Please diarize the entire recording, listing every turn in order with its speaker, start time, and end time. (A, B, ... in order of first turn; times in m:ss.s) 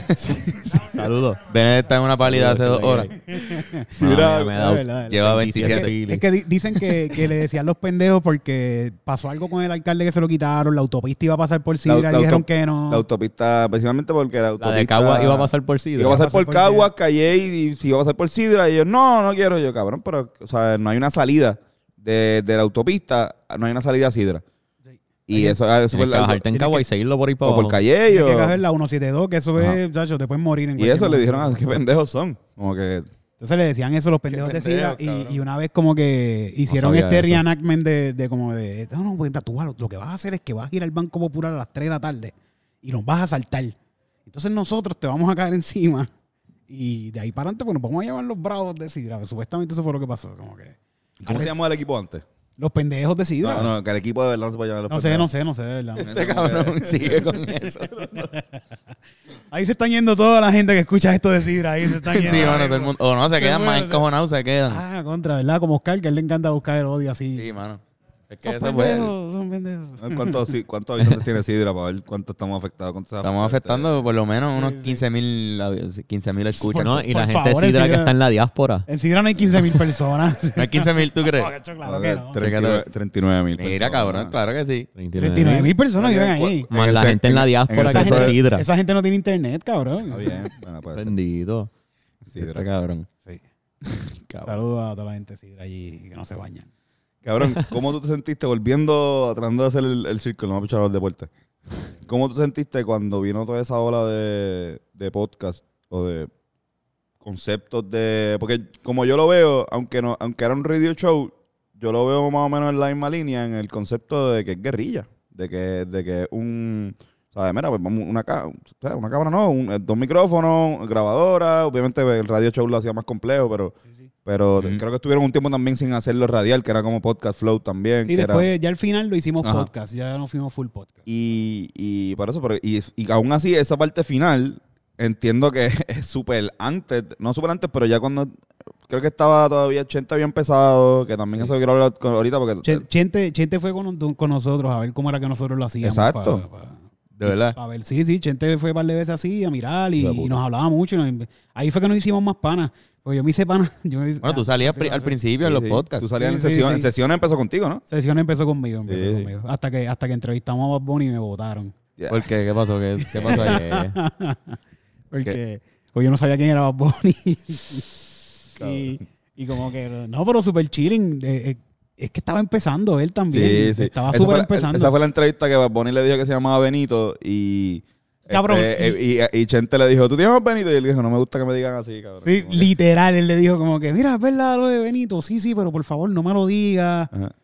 0:00.2-0:00.9 A
0:00.8-0:01.4 B
0:01.4-0:03.1 C
0:02.2-0:03.1 B
0:03.1-0:03.9 A
0:03.9-0:04.6 D
0:04.0-0:06.2 B
0:04.0-0:04.3 C
0:04.5-0:13.0 A
0:05.1-0:05.9 C
0:11.8-0:24.4 D
0:14.6-0:16.2 B
0:16.1-0:16.9 A
0:25.3-0:26.4 D
0:25.3-0:25.6 A
0:25.9-0:27.8 B
0:26.5-0:26.8 A
0:27.4-0:28.6 D
0:28.1-0:31.8 A
0:30.8-0:33.1 D
0:33.4-0:46.1 A
0:34.3-0:35.4 C
0:36.7-0:37.4 B
0:46.7-0:51.5 A
0:51.2-0:52.2 D
0:52.6-0:53.7 A
0:53.4-0:55.3 D
0:54.9-0:56.1 A
0:56.0-0:58.3 D
0:56.0-0:58.2 C
0:58.1-0:58.6 A
0:59.5-1:04.0 A
1:02.1-1:04.8 C
1:02.2-1:02.6 D
1:04.7-1:07.5 A
1:07.4-1:09.1 C
1:08.4-1:10.4 A
1:10.0-1:13.9 D
1:13.2-1:17.0 C
1:14.6-1:15.0 A
1:16.6-1:18.1 A
1:16.7-1:18.9 B
1:18.9-1:22.4 A
1:20.6-1:21.5 C
1:21.8-1:24.3 D
1:22.4-1:22.8 C
1:23.6-1:24.9 C
1:25.0-1:25.8 B
1:25.2-1:26.7 A
1:26.0-1:28.4 D
1:26.7-1:28.7 B
1:27.8-1:30.5 A
1:30.1-1:31.1 D
1:30.9-1:31.7 B
1:32.3-1:32.6 D
1:32.4-1:33.1 C
1:33.9-1:34.4 D
1:34.4-1:36.7 A
1:37.2-1:46.3 D
1:47.2-2:08.5 D
2:08.0-2:11.0 A
2:09.4-2:09.7 D
2:11.0-2:18.3 D
2:18.9-2:22.8 D
2:22.6-2:35.1 A
2:25.8-2:26.4 D
2:27.2-2:27.6 C
2:30.0-2:30.3 D
2:34.2-2:36.1 C
2:35.4-2:37.8 D
2:36.1-2:36.9 A
2:37.9-2:41.7 A
2:38.9-2:39.3 D
2:42.0-2:42.3 D
2:42.1-2:43.9 C
2:43.0-2:44.6 A
2:43.3-2:43.8 B
2:45.1-2:54.9 A
2:48.6-2:49.0 D
2:53.3-3:02.7 D
2:58.3-2:59.0 A
3:02.2-3:07.1 A